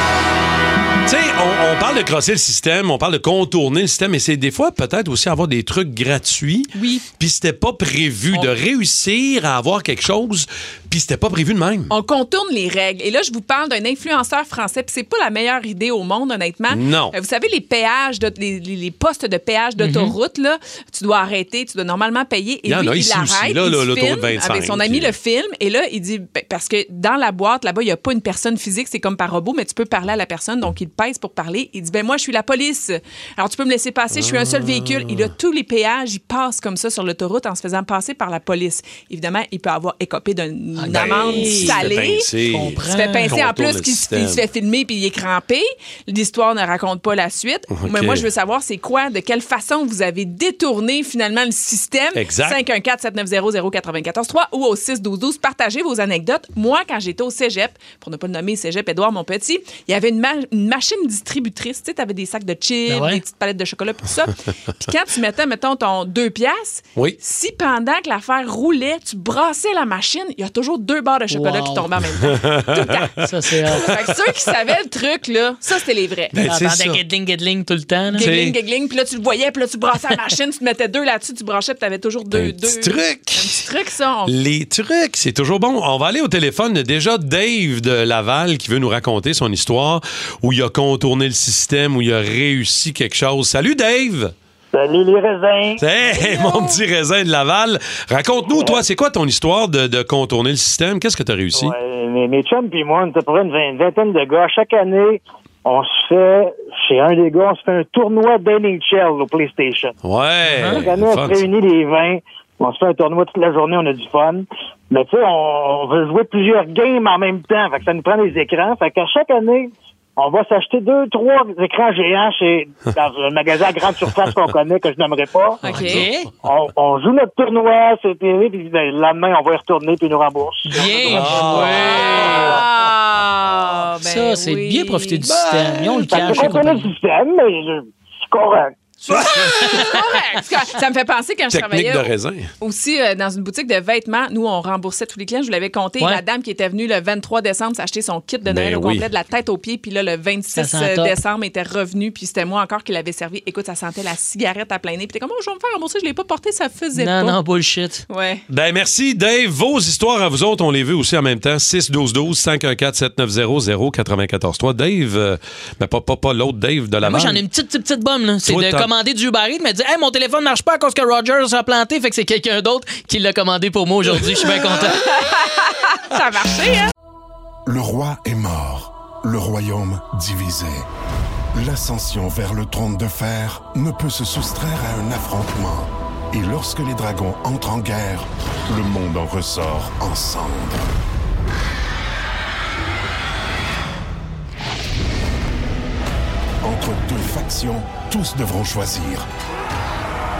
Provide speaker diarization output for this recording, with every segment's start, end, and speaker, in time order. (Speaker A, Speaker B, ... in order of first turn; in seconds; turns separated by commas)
Speaker A: 1.1-11.9, Speaker B: 6.7-7.0, Speaker B: 11.9-42.3, Speaker A: 16.7-17.1, Speaker C: 19.8-20.1, Speaker A: 22.6-25.1, Speaker A: 34.1-35.3, Speaker C: 40.8-41.9, Speaker A: 40.9-44.4, Speaker C: 42.5-43.4, Speaker B: 42.8-73.1, Speaker A: 47.7-48.3, Speaker A: 52.1-52.6, Speaker C: 62.9-63.2, Speaker C: 71.3-71.9, Speaker A: 72.3-73.1, Speaker C: 73.2-73.9, Speaker B: 73.7-76.3, Speaker A: 73.9-74.1, Speaker A: 76.3-77.0, Speaker C: 76.4-78.3, Speaker B: 78.1-84.3, Speaker A: 78.2-78.6, Speaker A: 82.3-83.6, Speaker A: 84.2-94.3, Speaker D: 94.7-95.8, Speaker A: 95.8-101.8, Speaker D: 98.5-98.8, Speaker D: 101.5-110.0, Speaker A: 110.0-111.5, Speaker C: 110.5-110.8, Speaker D: 110.6-125.6, Speaker B: 125.6-126.1, Speaker C: 125.7-126.3, Speaker D: 126.4-131.5, Speaker C: 130.7-132.4, Speaker A: 131.0-132.5, Speaker B: 131.1-135.3, Speaker C: 134.0-136.9, Speaker D: 136.0-138.8, Speaker C: 139.1-140.0, Speaker B: 139.1-157.4, Speaker A: 141.5-142.5, Speaker A: 148.4-149.1, Speaker C: 150.5-151.2, Speaker C: 156.9-158.0, Speaker B: 158.1-158.4, Speaker A: 158.5-167.4, Speaker C: 167.0-175.1, Speaker A: 168.4-168.9, Speaker B: 175.1-176.9, Speaker E: 177.7-180.9, Speaker E: 181.5-190.9, Speaker E: 196.6-199.3